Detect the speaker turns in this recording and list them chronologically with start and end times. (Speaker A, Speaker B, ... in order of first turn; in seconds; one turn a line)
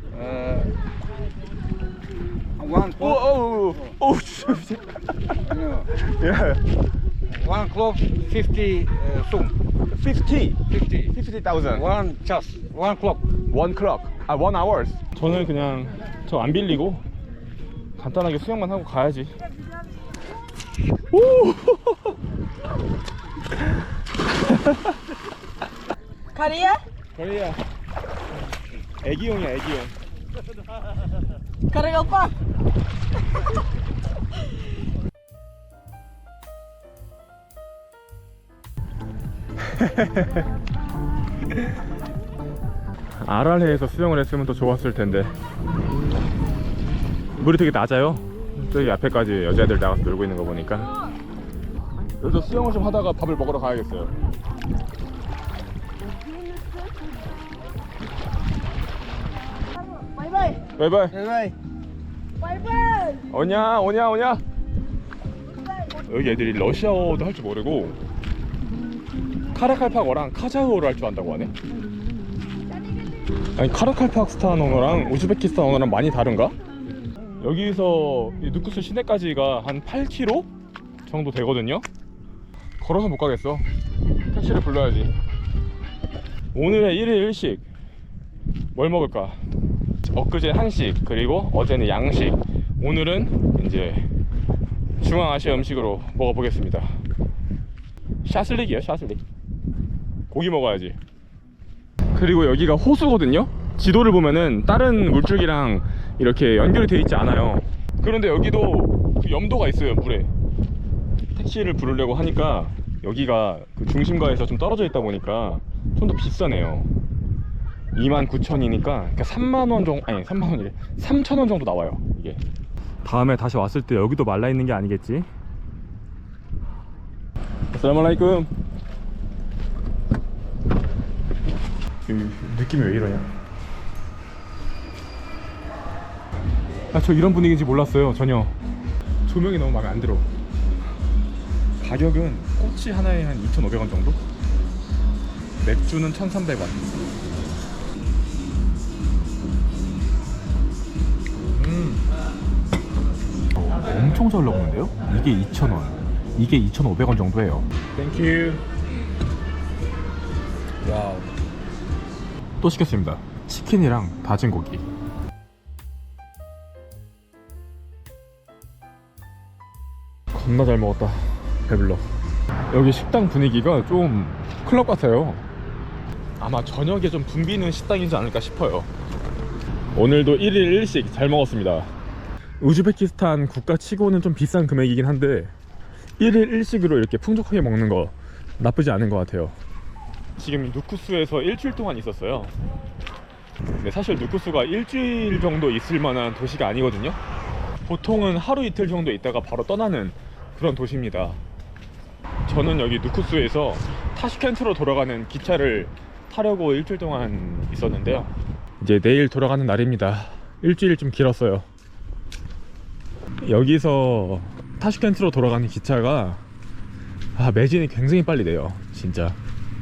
Speaker A: 0.1-0.7
Speaker A: 2.6-3.0
Speaker B: 2.8-6.6
Speaker A: 7.3-9.5
Speaker B: 9.9-12.0
Speaker A: 11.8-13.2
Speaker B: 13.4-17.0
Speaker B: 18.0-19.3
Speaker B: 21.1-22.1
Speaker B: 24.5-24.8
Speaker C: 26.5-26.8
Speaker B: 27.1-27.6
Speaker B: 29.0-29.9
Speaker C: 31.7-32.3
Speaker B: 39.8-40.2
Speaker B: 43.2-45.4
Speaker B: 47.4-50.9
Speaker B: 52.2-54.1
Speaker C: 56.3-56.9
Speaker C: 59.7-60.6
Speaker B: 60.8-61.3
Speaker C: 62.4-63.2
Speaker B: 63.1-64.4
Speaker B: 65.9-68.0
Speaker B: 69.5-71.5
Speaker B: 73.5-76.5
Speaker B: 77.4-80.5
Speaker B: 81.1-81.8
Speaker B: 82.8-83.7
Speaker B: 84.3-85.1
Speaker B: 86.5-87.6
Speaker B: 88.7-89.4
Speaker B: 90.1-94.1
Speaker B: 95.0-97.0
Speaker B: 98.2-99.2
Speaker B: 100.3-101.0
Speaker B: 102.1-110.3
Speaker B: 111.3-116.9
Speaker B: 117.9-122.4
Speaker B: 123.0-125.3
Speaker B: 127.7-128.5
Speaker B: 132.0-133.3
Speaker B: 136.9-138.6
Speaker B: 139.2-140.3
Speaker B: 141.8-144.2
Speaker B: 145.6-146.9
Speaker B: 151.6-152.0
Speaker B: 153.6-158.6
Speaker B: 160.8-161.3
Speaker B: 162.6-164.8
Speaker B: 170.3-172.1
Speaker B: 172.7-175.4
Speaker B: 176.4-178.9
Speaker B: 179.9-181.9
Speaker B: 182.6-185.5
Speaker B: 186.2-189.6
Speaker B: 190.4-192.5
Speaker B: 193.8-197.2
Speaker B: 197.8-201.4
Speaker B: 202.4-211.7
Speaker B: 213.4-216.4
Speaker B: 217.3-219.4